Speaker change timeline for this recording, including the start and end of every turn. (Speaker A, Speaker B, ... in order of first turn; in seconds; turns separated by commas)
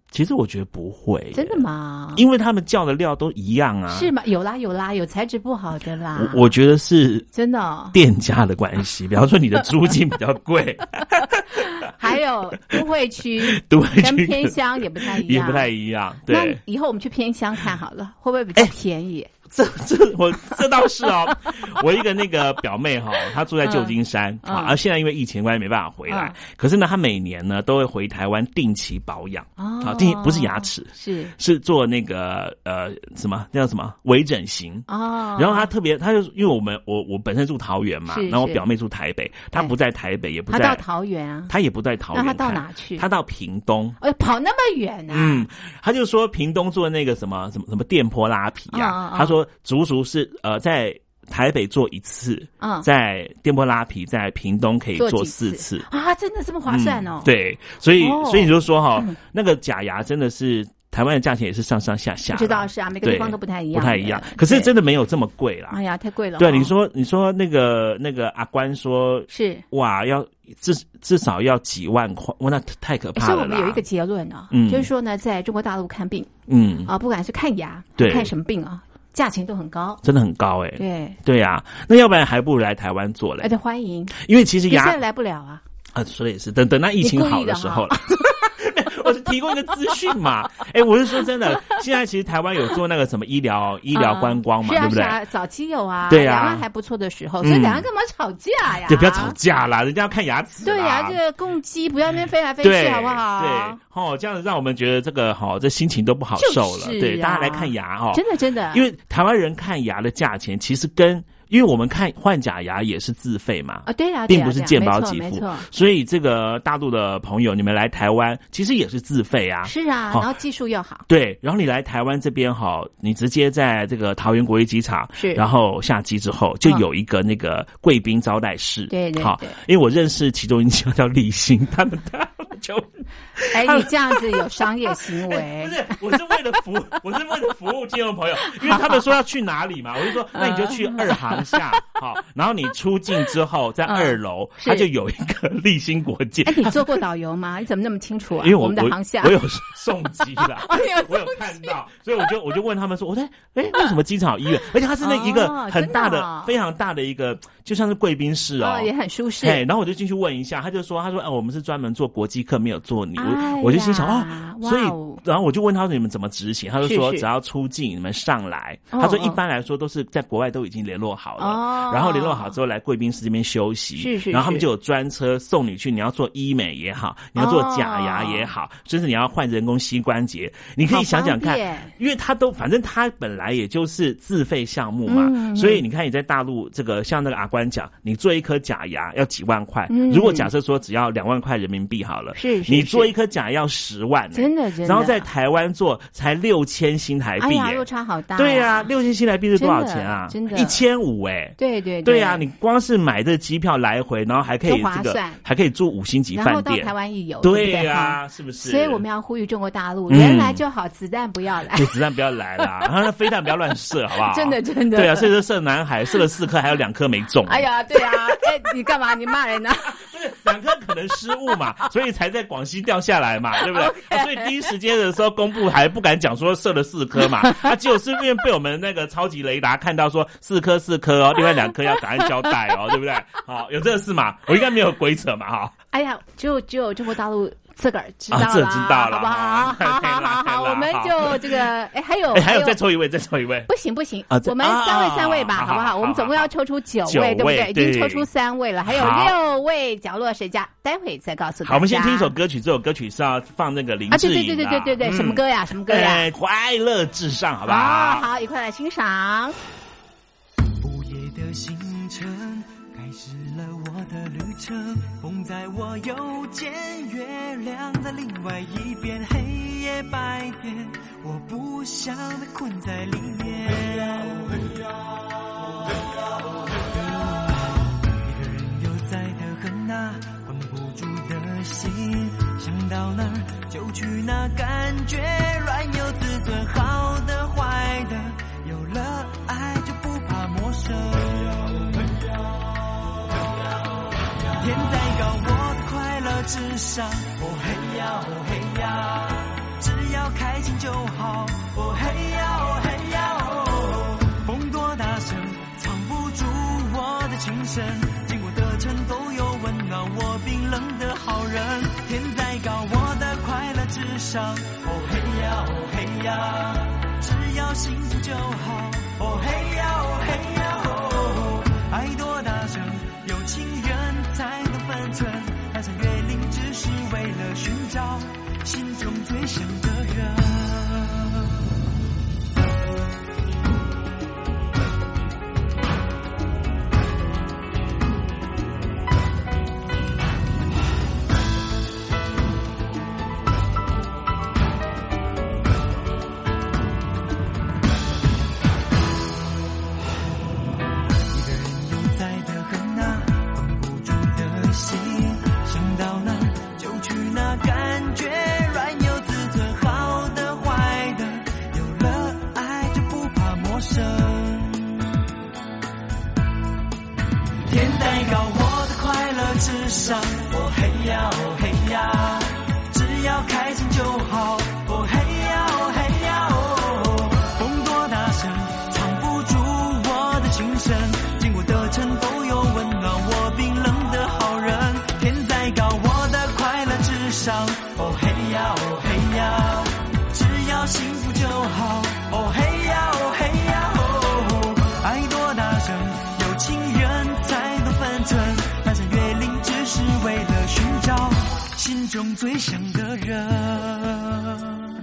Speaker A: 0.1-1.6, Speaker B: 1.3-2.2, Speaker A: 2.1-4.1, Speaker B: 3.9-6.5, Speaker A: 6.1-7.3, Speaker B: 7.3-8.0, Speaker A: 7.9-11.9, Speaker B: 11.6-15.7, Speaker A: 13.4-16.6, Speaker B: 16.3-19.3, Speaker A: 19.5-40.8, Speaker B: 23.6-24.7, Speaker B: 26.1-26.4, Speaker B: 29.6-31.3, Speaker B: 34.9-35.7, Speaker B: 38.1-38.6, Speaker B: 40.5-41.5, Speaker A: 41.5-44.0, Speaker B: 42.1-43.0, Speaker B: 44.0-45.5, Speaker A: 45.1-55.9, Speaker B: 48.7-49.4, Speaker B: 52.6-52.9, Speaker B: 55.0-57.3, Speaker A: 56.6-65.8, Speaker B: 58.0-59.2, Speaker B: 62.3-64.7, Speaker B: 65.7-66.7, Speaker A: 66.4-73.8, Speaker B: 69.3-69.6, Speaker B: 73.2-76.3, Speaker A: 74.5-74.9, Speaker A: 76.5-76.9, Speaker B: 76.8-80.0, Speaker A: 78.0-78.3, Speaker A: 80.0-83.5, Speaker B: 80.8-81.2, Speaker B: 83.4-84.2, Speaker A: 84.1-85.0, Speaker B: 84.7-85.6, Speaker A: 85.9-95.2, Speaker B: 87.0-88.4, Speaker B: 93.9-99.4, Speaker A: 96.1-96.6, Speaker A: 97.4-97.9, Speaker A: 98.8-101.2, Speaker B: 100.6-103.8, Speaker A: 102.6-120.3, Speaker B: 106.3-108.9, Speaker B: 113.8-115.7, Speaker B: 119.6-121.0, Speaker A: 121.1-147.0, Speaker B: 125.1-125.4, Speaker B: 128.9-129.6, Speaker B: 133.5-135.9, Speaker B: 138.5-139.0, Speaker B: 140.3-141.6, Speaker B: 143.8-144.9, Speaker B: 146.4-149.4, Speaker A: 148.4-158.9, Speaker B: 150.4-151.7, Speaker B: 155.0-156.5, Speaker B: 158.6-159.6, Speaker A: 159.4-209.0, Speaker B: 163.2-165.2, Speaker B: 166.8-167.2, Speaker B: 168.9-169.4, Speaker B: 171.4-172.5, Speaker B: 174.0-174.7, Speaker B: 177.3-178.5, Speaker B: 180.9-181.9, Speaker B: 185.1-185.8, Speaker B: 189.9-190.5, Speaker B: 192.3-193.1, Speaker B: 194.3-195.2, Speaker B: 197.4-198.9, Speaker B: 199.6-200.8, Speaker B: 201.6-202.4, Speaker B: 204.6-205.4, Speaker B: 206.3-211.9, Speaker A: 210.1-210.6, Speaker A: 211.7-218.3, Speaker B: 214.2-215.3, Speaker B: 217.4-220.0, Speaker A: 219.9-235.7, Speaker B: 223.6-224.5, Speaker B: 235.9-242.8, Speaker A: 238.3-241.7, Speaker A: 242.3-243.7, Speaker B: 243.7-252.3, Speaker A: 244.3-246.5, Speaker A: 247.0-248.3, Speaker A: 248.9-249.4, Speaker A: 251.6-258.3, Speaker B: 254.1-256.3, Speaker B: 257.6-259.6, Speaker C: 260.8-274.7, Speaker C: 276.8-292.0, Speaker C: 294.6-331.4, Speaker C: 351.3-365.0, Speaker C: 367.7-404.6